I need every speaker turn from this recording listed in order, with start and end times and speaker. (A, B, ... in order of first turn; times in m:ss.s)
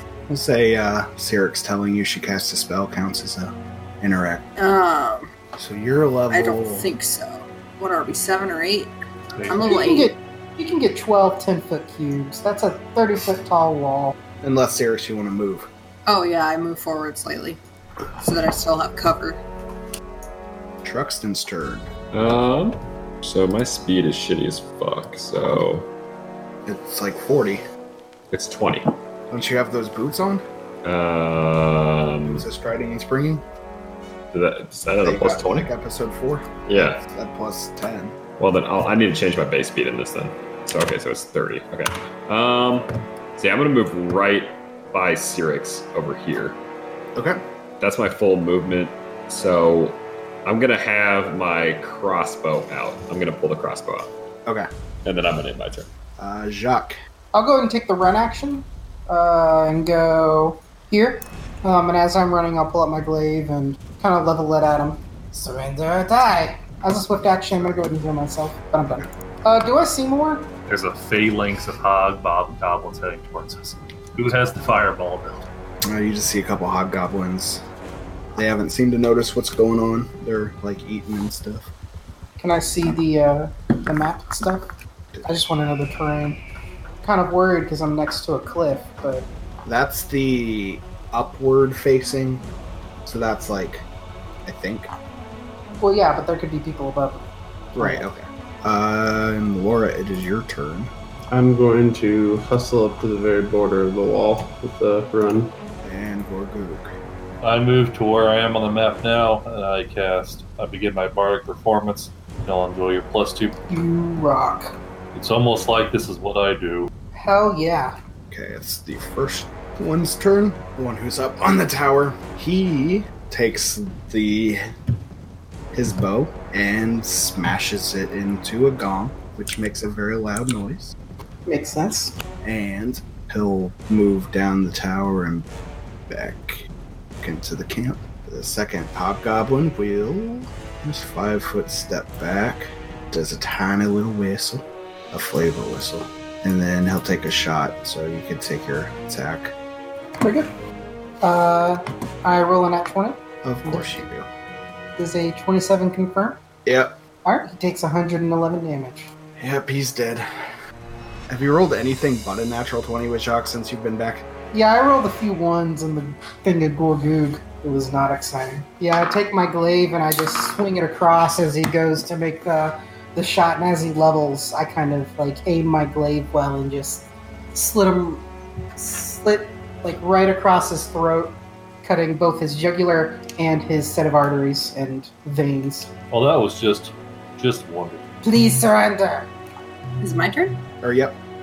0:00.3-0:04.4 A
0:04.6-0:05.3 B
0:05.6-0:06.9 A
0:06.3-0:08.9 B
0:09.4-0:09.8 C
0:09.5-0:10.1 B
0:09.6-0:14.1 D
0:14.4-0:15.7 A
0:16.1-0:17.6 B
0:18.2-0:19.4 B
0:20.8-0:21.9 A
0:22.1-0:25.9 E
0:26.6-0:27.6 A
0:28.3-0:28.9 E
0:29.3-0:30.4 A
0:30.8-0:32.4 E
0:32.3-0:33.4 A
0:34.3-0:35.7 E
0:35.0-0:38.1 A
0:36.6-0:37.0 E
0:38.4-0:46.6 E
0:47.8-0:54.1 E
0:55.0-0:55.9 E
0:56.2-0:57.0 A
0:57.3-1:10.5 D
1:07.6-1:07.8 A
1:10.7-1:15.4 C
1:15.8-1:17.6 A
1:18.4-1:21.7 A
1:22.4-1:24.7 D
1:25.2-1:26.4 D
1:27.0-1:29.3 D
1:29.6-1:32.4 A
1:33.0-1:33.8 A
1:34.4-1:34.9 A
1:35.8-1:38.0 D
1:37.7-1:40.9 A
1:41.3-1:45.5 F
1:45.8-1:47.0 A
1:47.4-1:53.6 C
1:53.7-1:54.8 D
1:55.1-1:56.9 C
1:57.1-1:58.0 D
1:58.3-2:04.6 A
2:05.7-2:10.9 A
2:11.4-2:12.1 D
2:12.4-2:15.5 A
2:16.1-2:16.6 A
2:17.2-2:29.5 A
2:30.2-2:30.5 D
2:31.2-2:34.0 D
2:33.4-2:34.3 A
2:35.0-2:36.4 D
2:36.6-2:37.0 A
2:37.2-2:39.1 D
2:39.4-2:40.2 A
2:41.3-2:44.3 A
2:44.5-2:58.2 D
2:58.8-3:05.9 D
3:06.1-3:08.0 C
3:08.2-3:09.3 D
3:10.0-3:10.5 B
3:10.8-3:11.2 A